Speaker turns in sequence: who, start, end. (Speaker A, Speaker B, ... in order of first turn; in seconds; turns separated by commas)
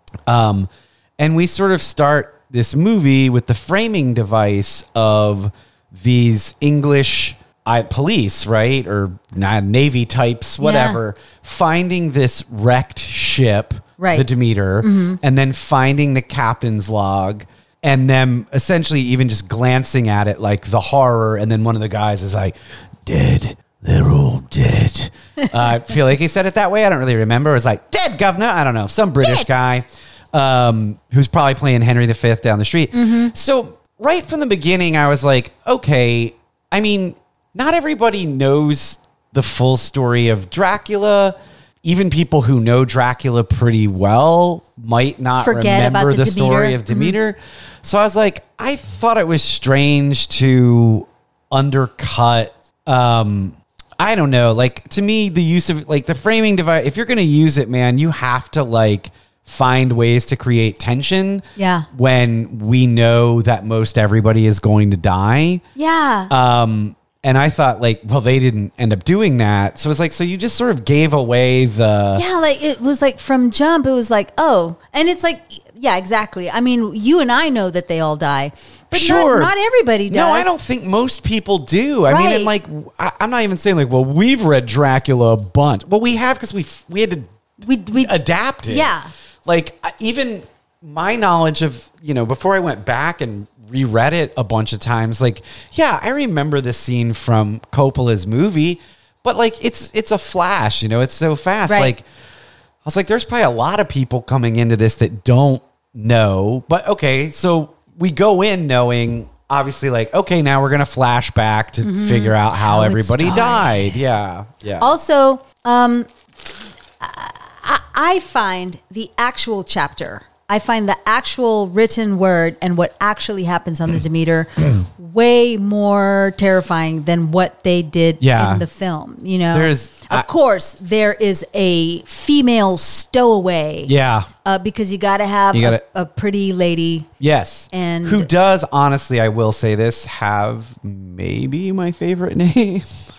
Speaker A: 0.3-65.6, Speaker B: 10.6-11.0, Speaker B: 14.0-14.3, Speaker B: 14.8-15.2, Speaker B: 29.2-29.5, Speaker B: 32.9-33.3, Speaker B: 45.4-47.1, Speaker B: 61.6-61.9, Speaker B: 65.8-66.3, Speaker A: 66.3-72.2, Speaker B: 72.1-80.5, Speaker A: 78.9-79.5, Speaker A: 80.1-87.3, Speaker B: 82.0-82.5, Speaker B: 87.6-88.1, Speaker A: 88.0-102.0, Speaker B: 88.7-89.1, Speaker B: 101.7-101.9, Speaker A: 102.8-114.9, Speaker B: 111.8-113.9, Speaker B: 114.8-116.1, Speaker B: 117.0-133.9, Speaker A: 128.2-128.6, Speaker A: 129.5-130.3, Speaker A: 133.9-134.3, Speaker B: 134.4-137.1, Speaker A: 135.5-135.8, Speaker A: 137.2-143.0, Speaker B: 137.7-138.3